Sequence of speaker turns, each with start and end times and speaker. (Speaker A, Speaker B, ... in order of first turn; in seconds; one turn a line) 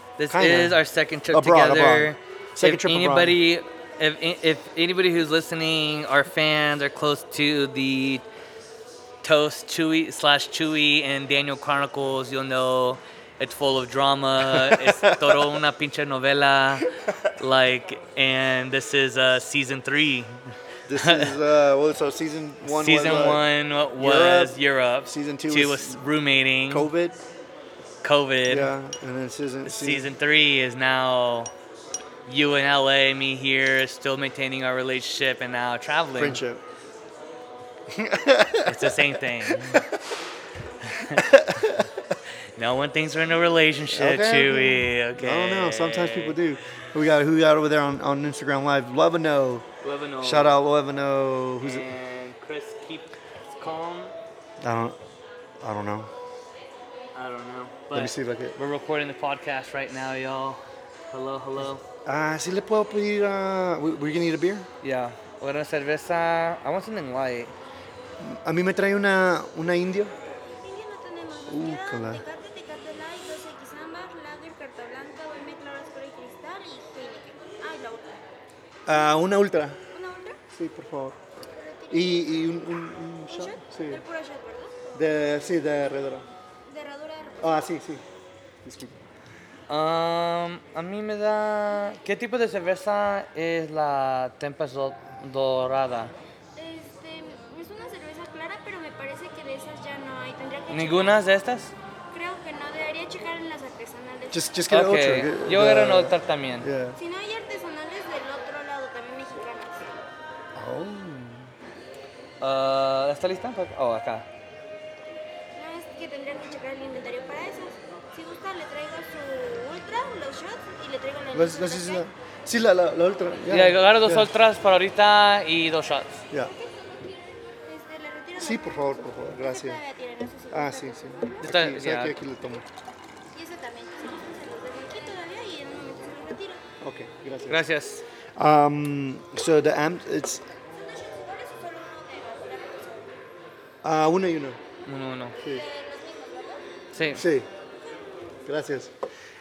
Speaker A: 0.2-8.2
Speaker B: 0.3-3.4
Speaker A: 9.2-20.4
Speaker B: 14.4-15.6
Speaker B: 20.9-23.4
Speaker A: 21.0-21.3
Speaker A: 22.7-26.9
Speaker B: 24.0-26.0
Speaker B: 26.7-27.2
Speaker A: 28.0-28.7
Speaker B: 28.5-30.1
Speaker A: 29.6-31.5
Speaker A: 32.3-36.4
Speaker B: 36.2-36.6
Speaker B: 37.9-39.8
Speaker A: 38.6-39.9
Speaker A: 40.8-41.3
Speaker B: 41.1-41.9
Speaker A: 42.6-46.4
Speaker B: 43.9-49.7
Speaker A: 49.8-50.6
Speaker B: 50.2-51.9
Speaker A: 51.6-54.1
Speaker B: 54.6-55.0
Speaker B: 55.6-56.1
Speaker A: 57.1-61.8
Speaker B: 57.9-58.6
Speaker B: 62.1-64.7
Speaker A: 64.8-67.5
Speaker B: 68.2-70.1
Speaker C: 70.6-78.2
Speaker B: 71.5-72.2
Speaker B: 78.9-79.8
Speaker C: 79.9-80.4
Speaker B: 80.5-81.2
Speaker C: 81.6-82.4
Speaker B: 81.9-84.0
Speaker C: 83.3-84.9
Speaker B: 85.0-86.3
Speaker C: 86.7-87.5
Speaker B: 87.4-88.0
Speaker B: 88.6-88.9
Speaker A: 89.7-96.1
Speaker C: 96.6-101.3
Speaker A: 100.7-101.7
Speaker C: 102.1-104.5
Speaker B: 104.3-107.0
Speaker A: 104.7-106.7
Speaker C: 107.0-109.9
Speaker B: 110.5-111.5
Speaker A: 112.4-114.3
Speaker C: 115.6-122.0
Speaker B: 121.3-124.3
Speaker A: 123.5-126.2
Speaker C: 126.4-131.4
Speaker B: 128.4-129.8
Speaker B: 130.5-132.6
Speaker A: 131.4-132.2
Speaker C: 133.3-136.6
Speaker B: 136.8-137.6
Speaker A: 137.5-138.0
Speaker B: 138.4-140.4
Speaker C: 140.8-143.1
Speaker B: 143.8-144.6
Speaker A: 144.9-145.4
Speaker C: 145.4-146.7
Speaker A: 146.9-147.2
Speaker B: 147.1-147.5
Speaker B: 148.5-148.9